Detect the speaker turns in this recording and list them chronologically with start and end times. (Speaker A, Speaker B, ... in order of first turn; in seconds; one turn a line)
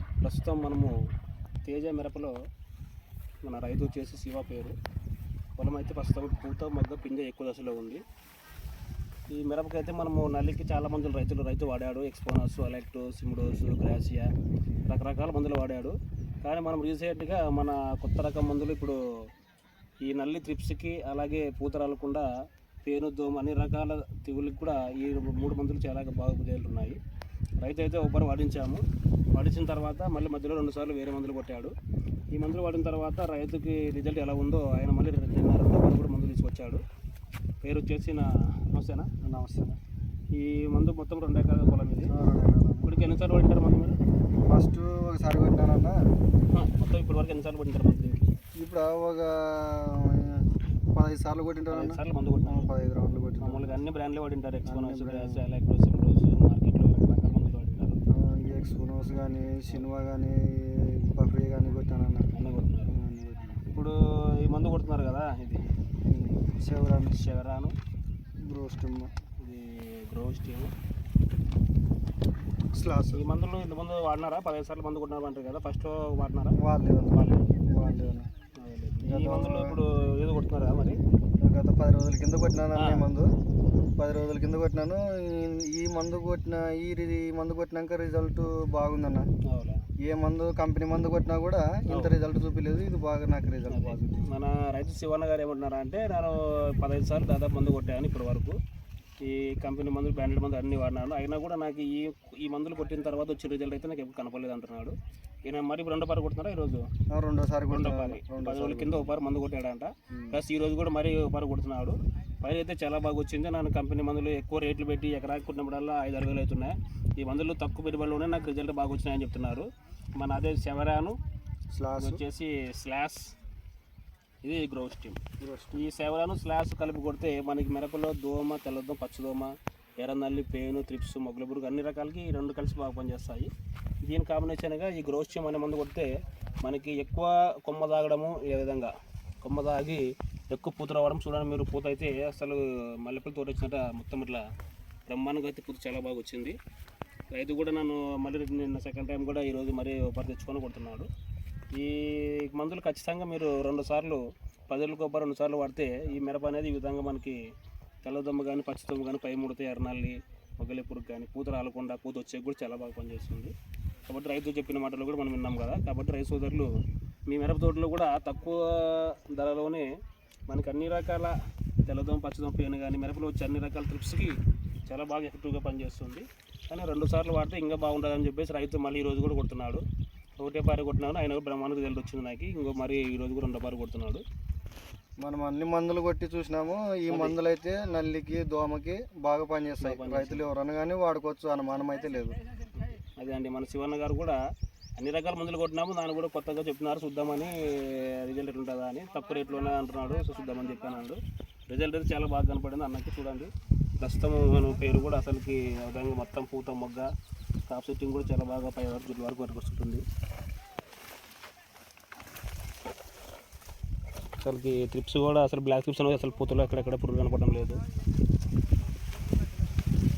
Speaker A: 0.2-0.9
Speaker A: 1.6-2.3
Speaker A: 3.4-4.8
Speaker A: 5.6-8.0
Speaker A: 9.3-14.3
Speaker A: 14.9-19.0
Speaker A: 20.0-22.3
Speaker A: 22.8-27.0
Speaker A: 27.6-31.7
Speaker A: 32.3-36.8
Speaker A: 37.6-39.1
Speaker B: 39.2-39.8
Speaker A: 40.3-42.1
Speaker B: 42.0-42.9
Speaker A: 42.8-44.0
Speaker B: 44.5-46.0
Speaker A: 46.5-48.2
Speaker B: 48.6-53.8
Speaker A: 51.7-52.7
Speaker A: 53.4-58.0
Speaker B: 54.6-55.4
Speaker B: 58.1-62.3
Speaker A: 62.3-62.9
Speaker B: 62.8-63.6
Speaker A: 63.7-65.6
Speaker B: 66.1-67.2
Speaker A: 67.1-67.7
Speaker B: 68.4-69.1
Speaker A: 69.4-70.7
Speaker B: 72.7-73.2
Speaker A: 73.1-76.6
Speaker B: 76.5-78.3
Speaker A: 77.1-77.5
Speaker A: 78.6-81.0
Speaker B: 79.0-79.8
Speaker B: 81.4-83.3
Speaker A: 82.8-83.0
Speaker B: 84.0-89.3
Speaker A: 89.4-89.8
Speaker B: 90.0-94.2
Speaker A: 93.7-98.6
Speaker A: 99.2-106.9
Speaker B: 107.1-109.1
Speaker A: 107.7-121.2
Speaker B: 110.1-110.4
Speaker B: 121.7-122.2
Speaker A: 122.0-123.3
Speaker A: 124.4-125.2
Speaker B: 125.4-125.9
Speaker A: 125.7-133.5
Speaker A: 134.0-136.1
Speaker A: 136.6-144.5
Speaker A: 145.1-146.6
Speaker A: 147.3-151.1
Speaker A: 151.7-157.4
Speaker A: 158.0-163.5
Speaker A: 164.1-166.7
Speaker A: 167.3-169.9
Speaker A: 170.5-179.8
Speaker A: 180.4-184.2
Speaker B: 185.2-192.4
Speaker A: 187.1-187.4
Speaker A: 189.8-190.4
Speaker A: 192.8-194.4
Speaker A: 195.0-207.1
Speaker A: 207.7-210.0
Speaker A: 214.4-217.8